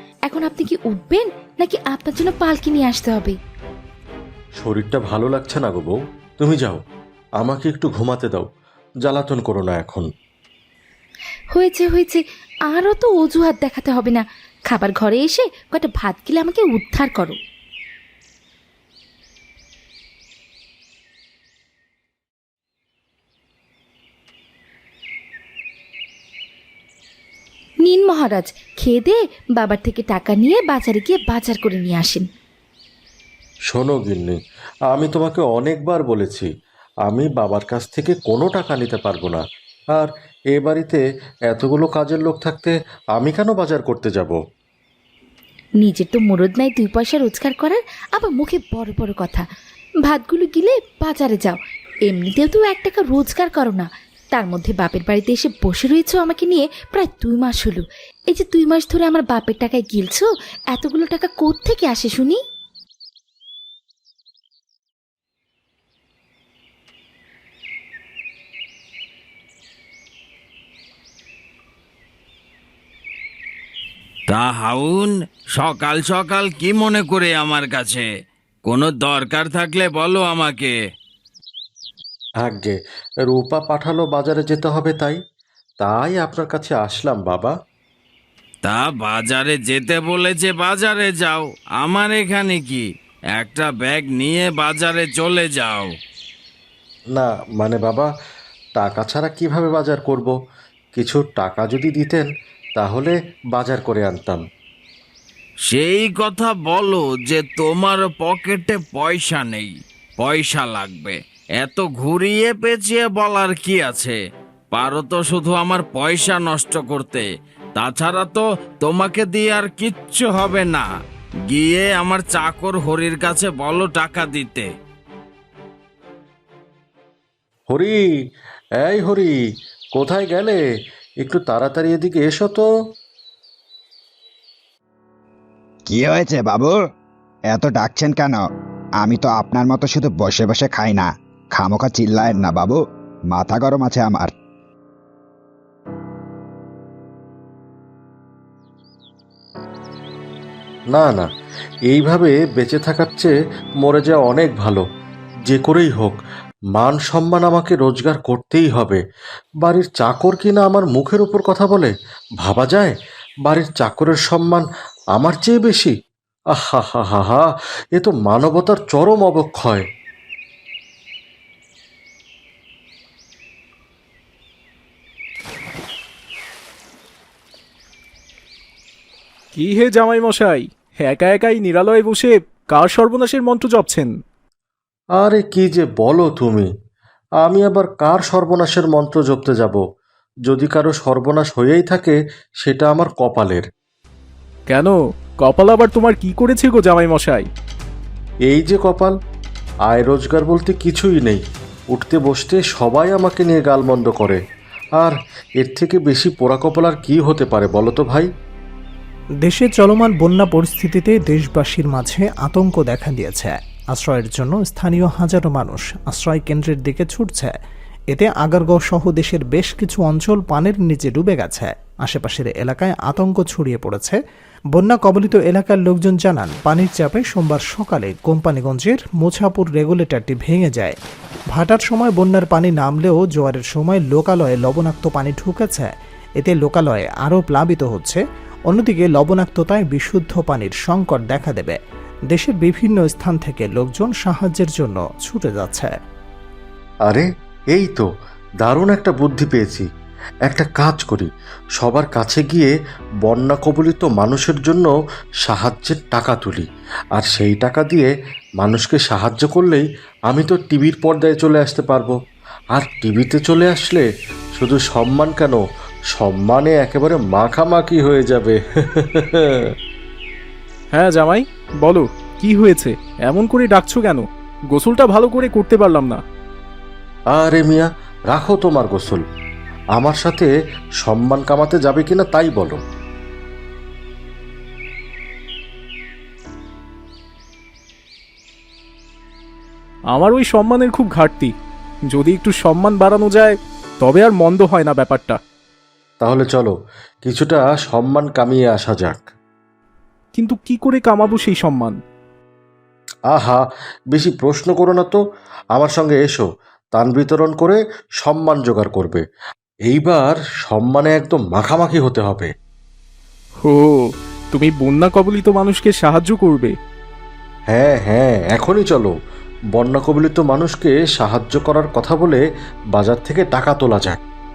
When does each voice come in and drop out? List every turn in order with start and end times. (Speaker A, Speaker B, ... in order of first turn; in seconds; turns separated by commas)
Speaker A: 0.3-3.4, Speaker B: 4.6-6.8, Speaker B: 7.4-8.5, Speaker B: 9.0-10.1, Speaker A: 11.5-17.4, Speaker A: 27.8-32.3, Speaker B: 33.7-34.4, Speaker B: 34.9-36.5, Speaker B: 37.0-39.4, Speaker B: 39.9-44.4, Speaker A: 45.8-49.5, Speaker A: 50.0-62.4, Speaker C: 74.3-78.1, Speaker C: 78.6-80.7, Speaker B: 82.4-85.2, Speaker B: 85.8-87.5, Speaker C: 88.6-92.8, Speaker C: 93.3-95.9, Speaker B: 97.1-98.1, Speaker B: 98.8-100.3, Speaker B: 100.9-104.4, Speaker C: 105.7-114.2, Speaker C: 114.7-117.2, Speaker C: 117.8-120.8, Speaker C: 121.5-124.7, Speaker B: 127.7-128.0, Speaker B: 128.8-129.3, Speaker B: 129.9-130.6, Speaker B: 131.2-132.7, Speaker D: 135.9-136.8, Speaker D: 137.5-138.4, Speaker D: 139.0-144.3, Speaker B: 150.9-151.3, Speaker B: 151.9-154.8, Speaker B: 155.5-156.2, Speaker B: 156.7-159.0, Speaker B: 159.6-162.9, Speaker B: 163.4-164.6, Speaker B: 165.1-165.9, Speaker B: 166.5-169.8, Speaker E: 179.5-184.1, Speaker B: 185.2-186.7, Speaker B: 187.4-189.8, Speaker B: 190.5-193.6, Speaker E: 194.7-197.5, Speaker B: 198.5-199.1, Speaker B: 199.9-201.4, Speaker B: 201.9-204.4, Speaker B: 205.0-208.3, Speaker F: 209.4-217.5, Speaker F: 218.1-224.2, Speaker F: 224.7-230.9, Speaker F: 231.5-241.8, Speaker F: 242.3-245.9, Speaker B: 247.1-248.1, Speaker B: 248.6-249.8, Speaker B: 250.4-252.7, Speaker B: 253.2-254.9, Speaker B: 255.4-262.1, Speaker B: 262.7-269.7, Speaker E: 270.9-276.2, Speaker B: 277.3-279.2, Speaker B: 279.9-280.5, Speaker B: 281.0-282.8, Speaker E: 290.1-291.5, Speaker E: 292.1-295.4, Speaker B: 296.2-299.2, Speaker E: 300.3-302.0, Speaker B: 303.3-305.2, Speaker B: 305.7-309.2, Speaker B: 309.9-312.5, Speaker E: 313.6-316.7, Speaker B: 317.7-319.1, Speaker B: 319.7-322.4, Speaker B: 322.9-324.2